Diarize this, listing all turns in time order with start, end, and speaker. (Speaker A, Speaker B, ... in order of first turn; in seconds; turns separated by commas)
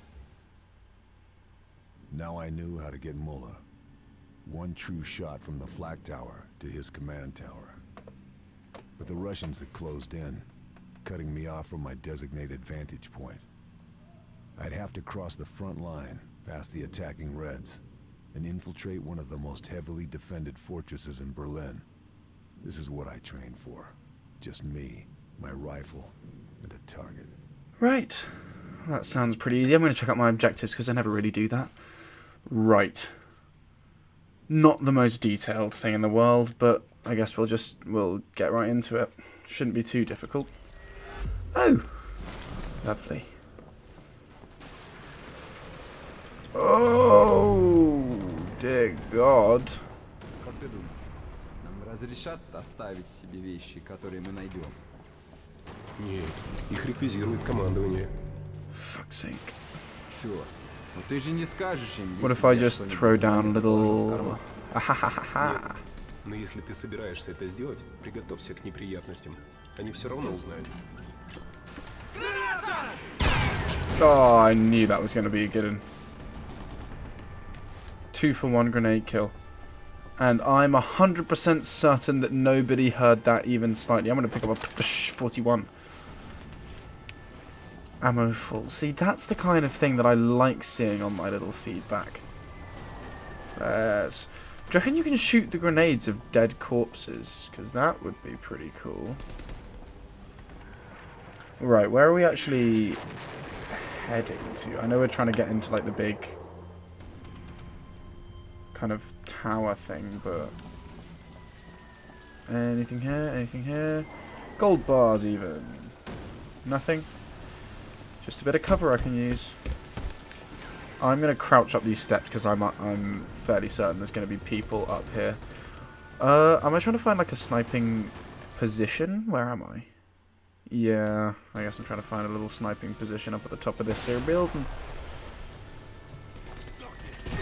Speaker A: 2.1-3.6, Speaker A: 4.4-7.8, Speaker A: 9.0-10.5, Speaker A: 11.0-13.5, Speaker A: 14.6-17.8, Speaker A: 18.3-21.9, Speaker A: 22.6-27.3, Speaker B: 27.8-28.3, Speaker B: 28.8-31.8, Speaker B: 32.5-33.1, Speaker B: 34.5-40.5, Speaker B: 41.5-41.9, Speaker B: 42.8-43.3, Speaker B: 46.5-49.8, Speaker C: 50.4-51.0, Speaker C: 51.6-54.8, Speaker D: 56.0-58.1, Speaker B: 58.7-59.6, Speaker C: 60.1-64.4, Speaker B: 62.2-65.8, Speaker D: 65.4-70.7, Speaker B: 74.0-75.8, Speaker B: 78.1-79.3, Speaker B: 80.2-85.7, Speaker B: 88.0-92.2, Speaker B: 93.6-99.2, Speaker B: 101.6-103.0, Speaker B: 103.7-106.4, Speaker B: 108.7-110.5, Speaker B: 112.5-115.9, Speaker B: 116.6-117.1, Speaker B: 118.2-119.6, Speaker B: 121.0-125.4, Speaker B: 126.2-129.9, Speaker B: 130.7-134.7